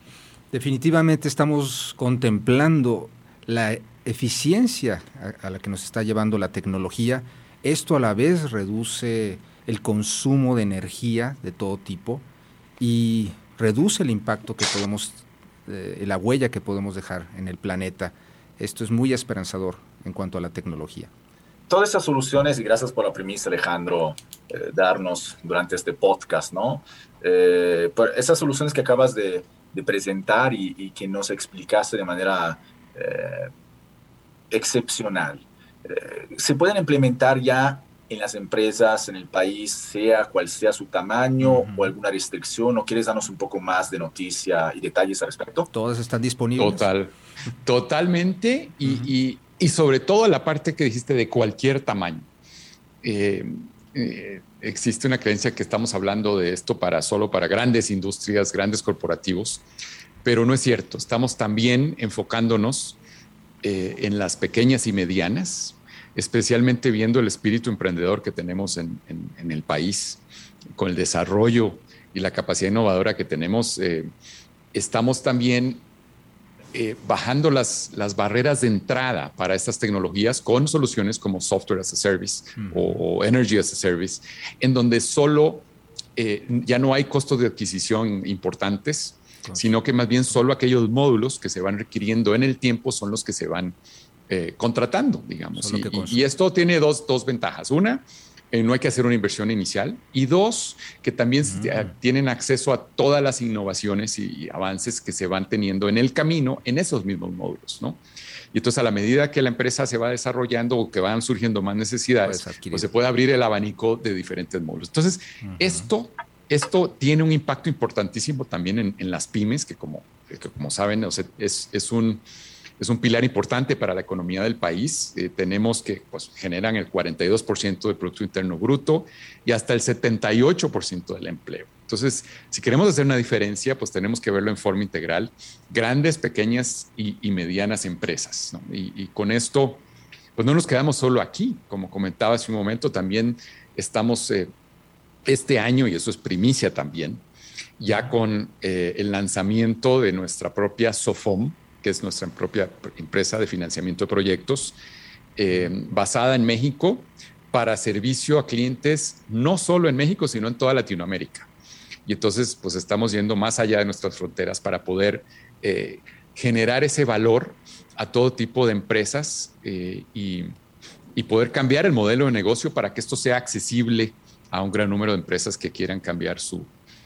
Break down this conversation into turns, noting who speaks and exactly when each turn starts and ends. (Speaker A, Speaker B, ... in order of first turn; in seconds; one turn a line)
Speaker A: 0.5-12.2
Speaker A: 12.8-21.1
Speaker B: 21.7-33.5
Speaker B: 34.5-45.7
Speaker A: 41.4-41.9
Speaker A: 45.7-46.9
Speaker C: 46.6-47.1
Speaker C: 47.6-52.3
Speaker C: 53.0-59.6
Speaker C: 60.2-63.0
Speaker C: 63.6-70.2
Speaker C: 70.7-74.1
Speaker C: 74.7-75.8
Speaker C: 76.7-93.8
Speaker A: 82.6-83.0
Speaker C: 94.3-108.0
Speaker A: 95.6-96.3
Speaker C: 108.5-122.2
Speaker A: 112.2-112.9
Speaker A: 115.4-115.9
Speaker C: 122.8-139.8
Speaker C: 140.3-144.5
Speaker C: 145.2-147.2
Speaker C: 147.8-154.8
Speaker C: 155.3-161.5
Speaker C: 162.1-170.5
Speaker C: 171.1-176.7